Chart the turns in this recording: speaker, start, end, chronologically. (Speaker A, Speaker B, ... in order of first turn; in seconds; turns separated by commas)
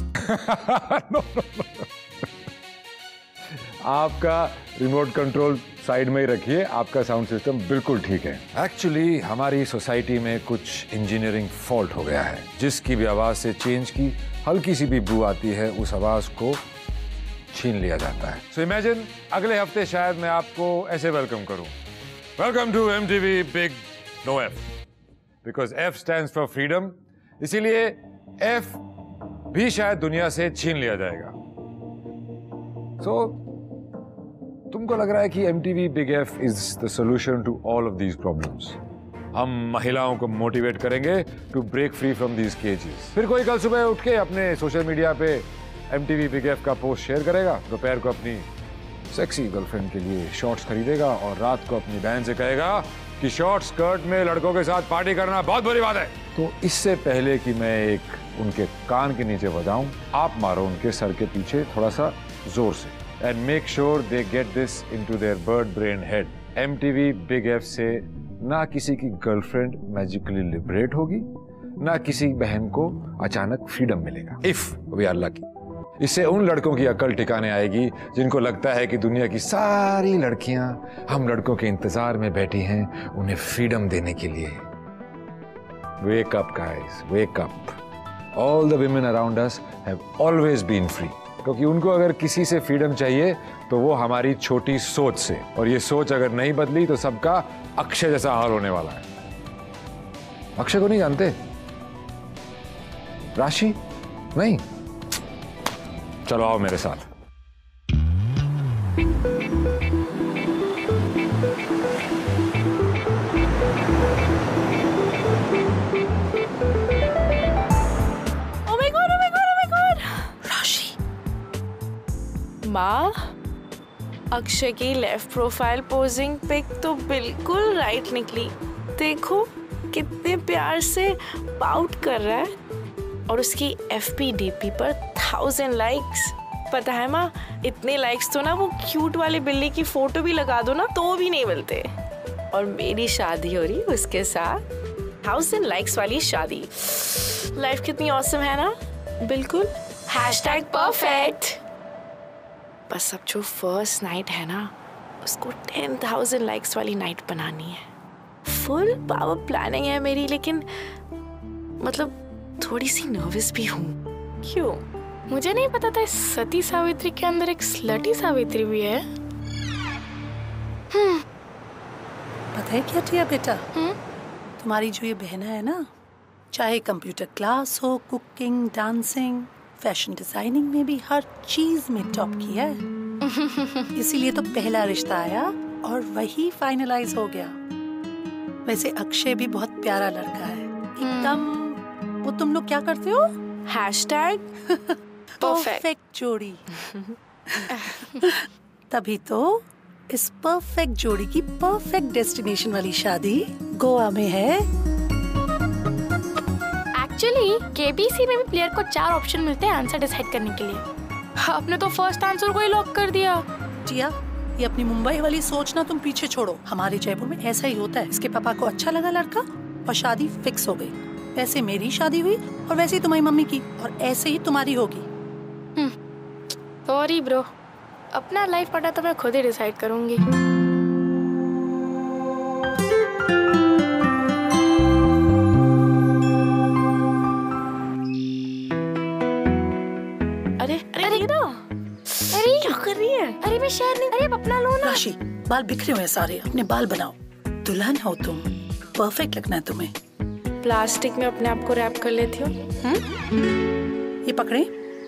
Speaker A: 0.2-1.8, Speaker A: 3.8-16.6, Speaker A: 17.5-21.7, Speaker A: 22.4-24.6, Speaker A: 25.4-28.8, Speaker A: 29.5-31.3, Speaker A: 33.0-33.4, Speaker A: 34.7-38.8, Speaker A: 39.3-48.5, Speaker A: 49.1-71.3, Speaker A: 71.8-75.4, Speaker A: 76.0-84.6, Speaker A: 86.0-87.8, Speaker A: 88.3-99.0, Speaker A: 100.6-101.3, Speaker A: 103.3-103.8, Speaker A: 104.3-104.6, Speaker A: 106.2-107.0, Speaker B: 118.7-120.3, Speaker C: 120.4-121.0, Speaker B: 122.6-123.3, Speaker B: 124.3-132.5, Speaker B: 133.3-141.9, Speaker B: 142.5-144.6, Speaker B: 145.2-151.6, Speaker D: 150.3-151.2, Speaker B: 152.9-157.8, Speaker B: 158.4-160.7, Speaker B: 161.8-164.8, Speaker D: 165.3-169.0, Speaker D: 170.9-171.2, Speaker C: 172.5-173.6, Speaker C: 174.6-175.9, Speaker C: 176.5-182.8, Speaker D: 183.2-183.9, Speaker C: 183.9-187.5, Speaker C: 188.6-193.3, Speaker D: 191.0-191.4, Speaker B: 193.7-194.5, Speaker C: 194.7-196.6, Speaker B: 195.4-195.8, Speaker C: 197.6-198.4, Speaker C: 198.9-204.7, Speaker D: 206.9-210.8, Speaker D: 211.4-213.4, Speaker C: 213.8-225.1, Speaker D: 226.8-227.5, Speaker D: 228.1-230.2, Speaker B: 240.6-241.5, Speaker D: 241.0-241.3, Speaker B: 242.1-243.4, Speaker D: 242.3-242.9, Speaker D: 243.4-245.0, Speaker C: 244.8-249.9, Speaker B: 250.6-252.6, Speaker C: 254.2-254.7